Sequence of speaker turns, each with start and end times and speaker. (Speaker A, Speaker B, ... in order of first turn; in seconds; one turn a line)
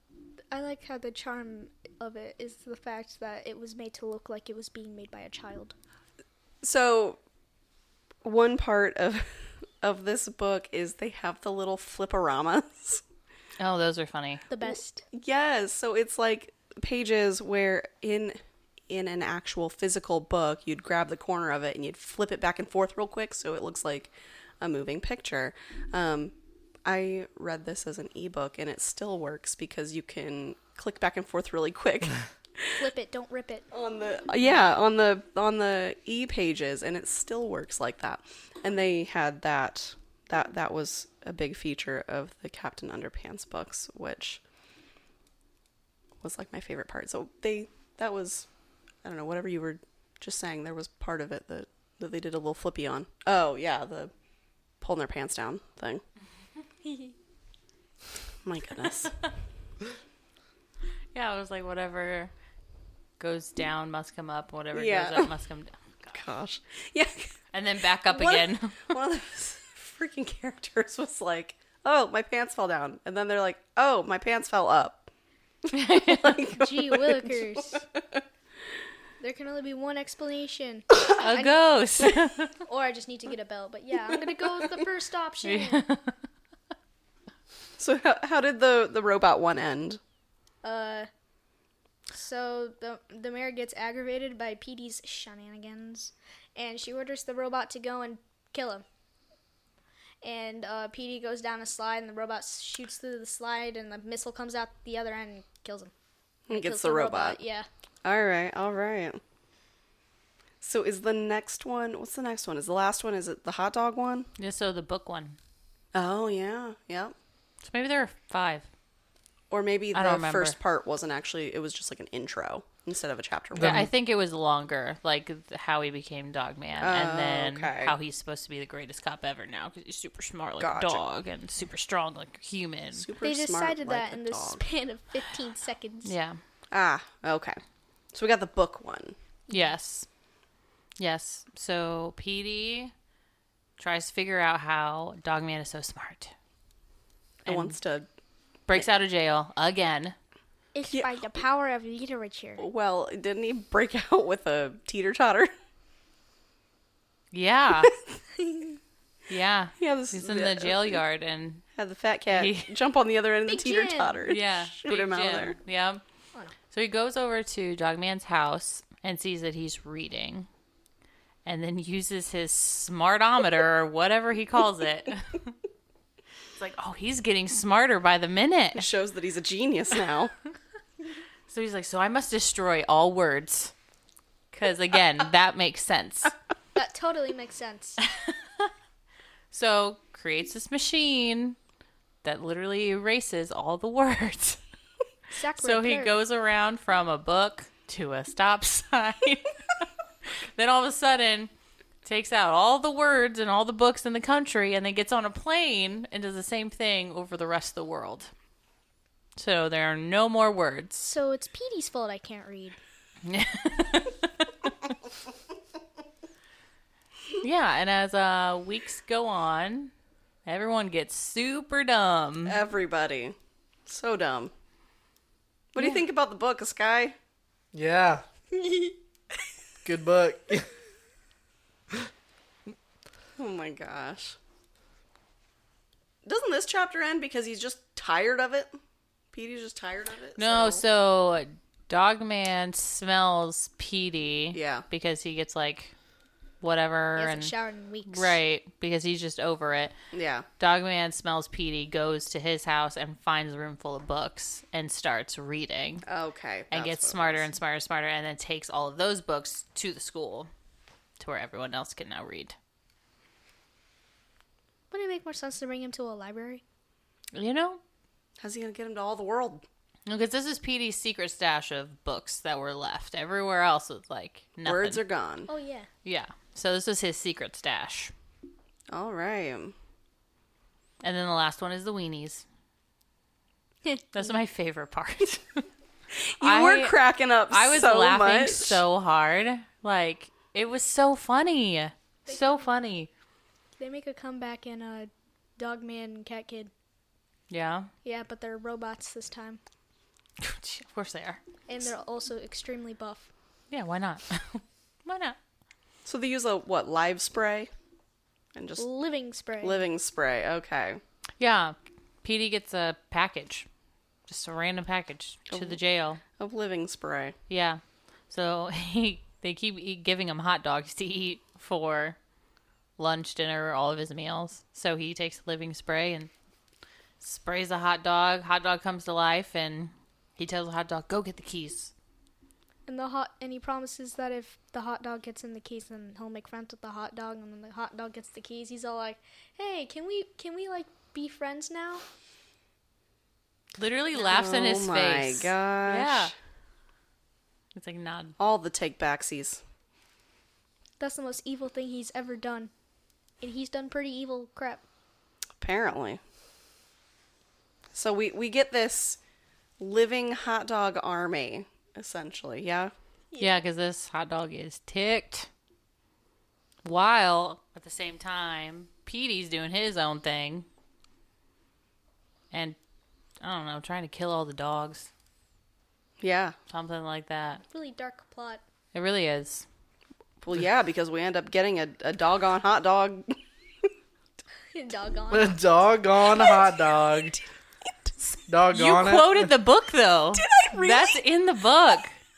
Speaker A: 0.5-5.7
Speaker B: 6.6-7.2
Speaker B: 8.2-13.0
Speaker C: 13.6-14.4
Speaker A: 14.5-15.1
Speaker B: 15.1-26.3
Speaker B: 26.8-32.7
Speaker A: 32.8-33.6
Speaker B: 33.7-44.4
Speaker B: 46.2-48.5
Speaker B: 49.0-54.1
Speaker B: 54.8-56.0
Speaker B: 58.4-59.2
Speaker C: 61.1-62.3
Speaker C: 63.2-66.2
Speaker B: 64.7-65.3
Speaker B: 66.1-67.3
Speaker C: 67.5-68.9
Speaker B: 68.1-75.1
Speaker C: 75.7-76.5
Speaker B: 75.8-78.2
Speaker A: 76.5-77.8
Speaker A: 79.2-81.6
Speaker C: 81.2-82.5
Speaker A: 82.6-85.8
Speaker C: 85.4-86.2
Speaker B: 87.8-90.0
Speaker A: 90.6-91.1
Speaker A: 92.1-98.8
Speaker A: 100.2-105.9
Speaker B: 106.5-107.4
Speaker A: 106.5-107.7
Speaker B: 108.0-109.2
Speaker B: 110.6-114.3
Speaker C: 114.4-115.4
Speaker B: 115.9-117.1
Speaker C: 117.6-118.7
Speaker B: 119.5-123.9
Speaker C: 119.9-120.6
Speaker D: 123.5-123.9
Speaker C: 123.5-133.1
Speaker B: 126.8-128.0
Speaker B: 130.6-131.0
Speaker B: 132.9-134.6
Speaker A: 133.2-136.1
Speaker C: 136.0-136.4
Speaker B: 136.7-137.6
Speaker B: 138.1-139.2
Speaker C: 139.5-140.1
Speaker C: 141.0-142.9
Speaker C: 143.8-146.3
Speaker B: 147.4-148.1
Speaker C: 147.4-147.8
Speaker C: 148.7-150.1
Speaker A: 150.7-152.6
Speaker B: 150.9-151.2
Speaker B: 152.6-155.5
Speaker C: 157.3-157.9
Speaker C: 159.3-161.6
Speaker B: 159.8-161.0
Speaker B: 161.7-165.6
Speaker C: 162.3-162.7
Speaker A: 163.5-164.2
Speaker C: 164.2-166.0
Speaker C: 166.7-170.5
Speaker C: 171.4-175.6
Speaker C: 176.5-178.9
Speaker B: 178.8-180.3
Speaker C: 181.5-183.7
Speaker C: 184.5-186.3
Speaker A: 186.7-188.0
Speaker C: 188.1-188.7
Speaker C: 189.5-191.6
Speaker C: 192.2-194.6
Speaker A: 195.3-196.1
Speaker C: 195.6-201.5
Speaker C: 202.0-208.3
Speaker C: 209.3-211.1
Speaker A: 211.0-212.8
Speaker C: 213.2-214.9
Speaker C: 217.4-219.9
Speaker C: 220.4-222.6
Speaker B: 222.4-223.3
Speaker B: 223.8-224.5
Speaker B: 225.7-227.2
Speaker C: 225.8-226.0
Speaker D: 227.7-228.2
Speaker D: 229.8-230.7
Speaker B: 233.4-234.4
Speaker B: 236.2-238.8
Speaker B: 239.3-240.8
Speaker C: 240.4-245.9
Speaker B: 244.5-244.8
Speaker C: 246.6-247.5
Speaker A: 247.2-248.4
Speaker C: 248.1-249.9
Speaker B: 250.1-250.4
Speaker C: 250.6-256.0
Speaker B: 256.0-257.5
Speaker C: 256.7-260.5
Speaker C: 261.2-262.5
Speaker A: 264.9-266.6
Speaker C: 267.3-267.8
Speaker B: 268.4-269.6
Speaker C: 270.1-275.0
Speaker B: 274.6-275.5
Speaker A: 275.5-275.9
Speaker C: 276.0-278.1
Speaker B: 278.9-279.7
Speaker C: 281.0-282.4
Speaker C: 284.1-285.6
Speaker B: 286.1-288.8
Speaker C: 286.4-286.9
Speaker C: 287.5-293.1
Speaker A: 292.3-292.7
Speaker A: 293.8-296.7
Speaker C: 297.5-297.9
Speaker A: 298.0-299.6
Speaker C: 300.4-301.4
Speaker A: 301.7-303.3
Speaker C: 303.7-305.4
Speaker B: 306.0-307.7
Speaker B: 308.5-308.9
Speaker A: 308.8-309.8
Speaker B: 309.6-311.0
Speaker C: 311.4-313.7
Speaker C: 314.3-316.2
Speaker B: 315.5-315.8
Speaker B: 316.3-317.3
Speaker C: 317.5-322.2
Speaker C: 323.0-326.3
Speaker C: 327.2-331.9
Speaker A: 332.9-342.0
Speaker C: 343.8-346.3
Speaker B: 344.1-346.3
Speaker C: 347.7-348.4
Speaker B: 348.4-349.6
Speaker A: 351.0-352.7
Speaker A: 353.4-354.8
Speaker B: 355.6-356.2
Speaker B: 357.9-359.2
Speaker B: 359.8-362.9
Speaker A: 363.3-363.6
Speaker C: 363.4-365.5
Speaker C: 366.8-370.6
Speaker C: 372.5-372.8
Speaker C: 373.4-375.1
Speaker B: 376.2-376.6
Speaker C: 376.7-377.6
Speaker A: 377.7-378.6
Speaker C: 378.9-379.6
Speaker B: 380.4-383.4
Speaker A: 384.7-385.6
Speaker D: 385.3-387.4
Speaker D: 388.5-389.5
Speaker C: 388.7-392.1
Speaker B: 390.3-391.2